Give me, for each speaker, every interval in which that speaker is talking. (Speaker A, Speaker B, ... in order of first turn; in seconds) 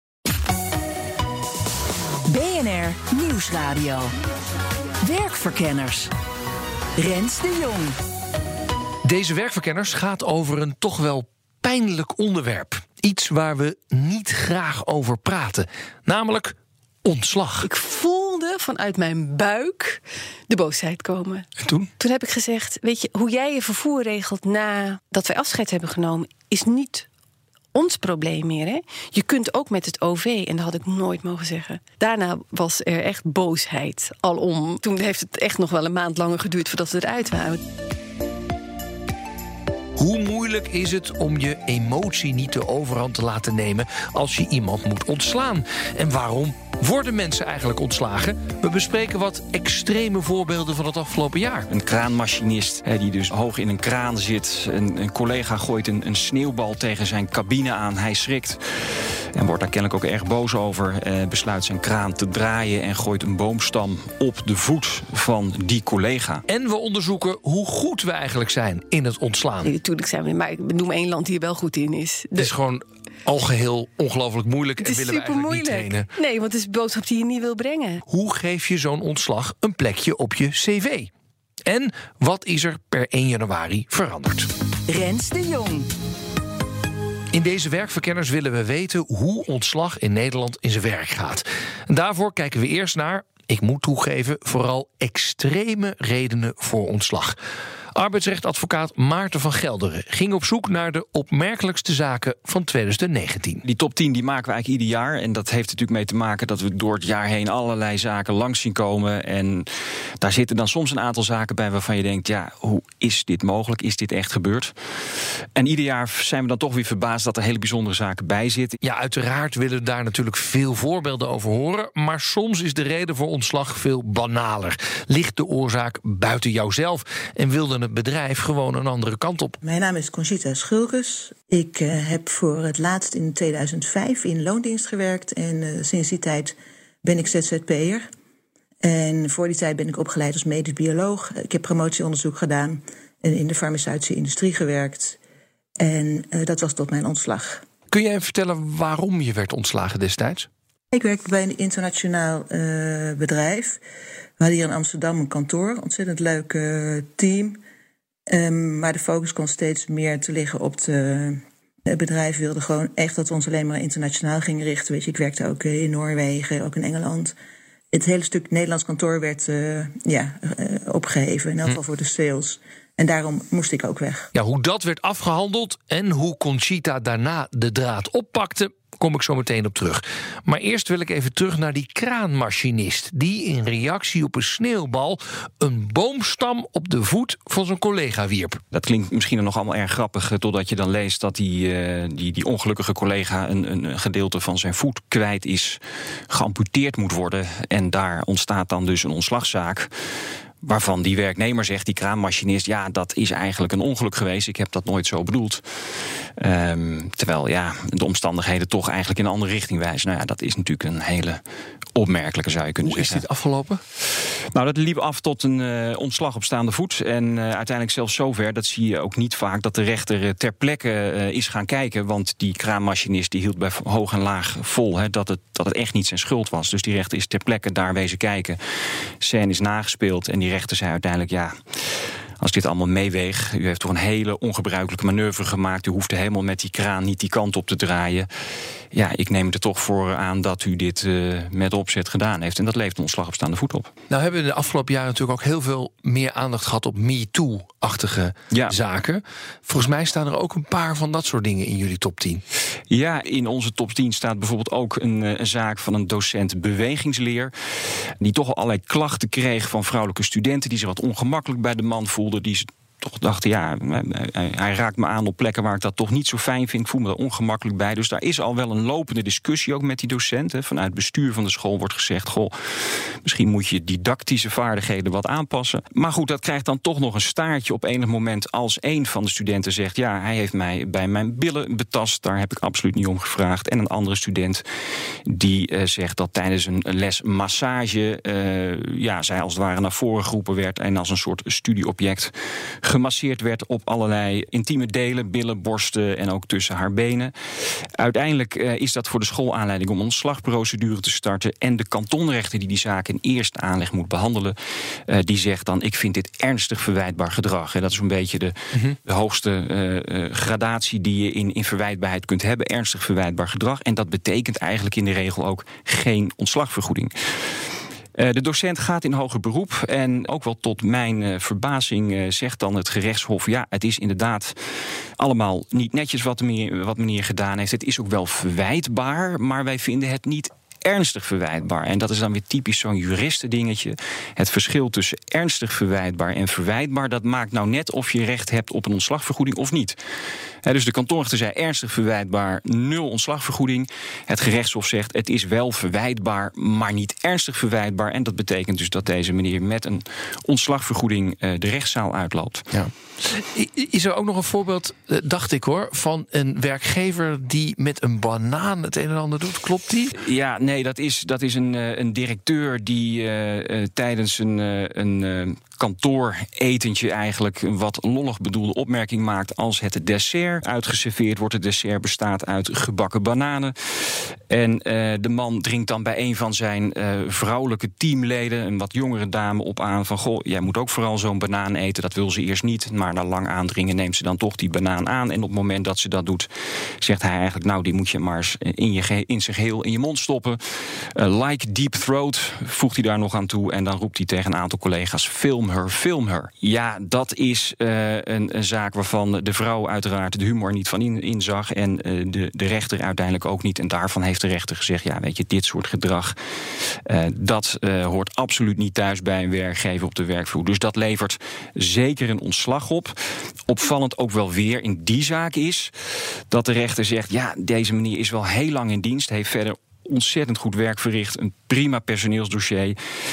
Speaker A: 2.3-4.1, 5.0-6.1, 7.0-8.0, 84.9-85.9
Speaker B: 9.0-17.7, 21.6-21.9, 40.0-51.7, 66.5-69.7, 72.4-76.1, 78.1-81.1, 81.7-84.5, 87.3-97.4, 97.9-103.6, 118.8-129.6, 147.9-150.5, 174.3-188.6, 212.8-213.8, 244.1-252.4, 352.7-360.2
Speaker C: 17.6-21.5, 22.0-27.1, 27.7-37.6, 69.6-72.5, 74.8-78.0
Speaker D: 51.7-66.4, 103.7-109.7, 110.2-114.7, 115.6-118.8, 188.7-195.8, 196.3-199.9, 200.6-205.6, 206.4-211.4, 212.0-213.2, 214.5-228.6, 229.2-231.6, 232.4-238.3, 238.9-243.9, 252.9-257.5, 258.0-284.6, 285.3-297.3, 298.0-304.6, 305.1-308.5, 309.1-317.5, 318.2-324.6, 325.2-340.0, 340.6-352.7, 360.2-386.5, 387.0-406.4, 407.1-413.1, 413.7-415.9, 416.5-423.0
Speaker E: 129.6-138.1, 138.8-145.2, 145.8-147.6, 150.9-153.8, 154.4-157.6, 158.3-167.3, 167.9-174.3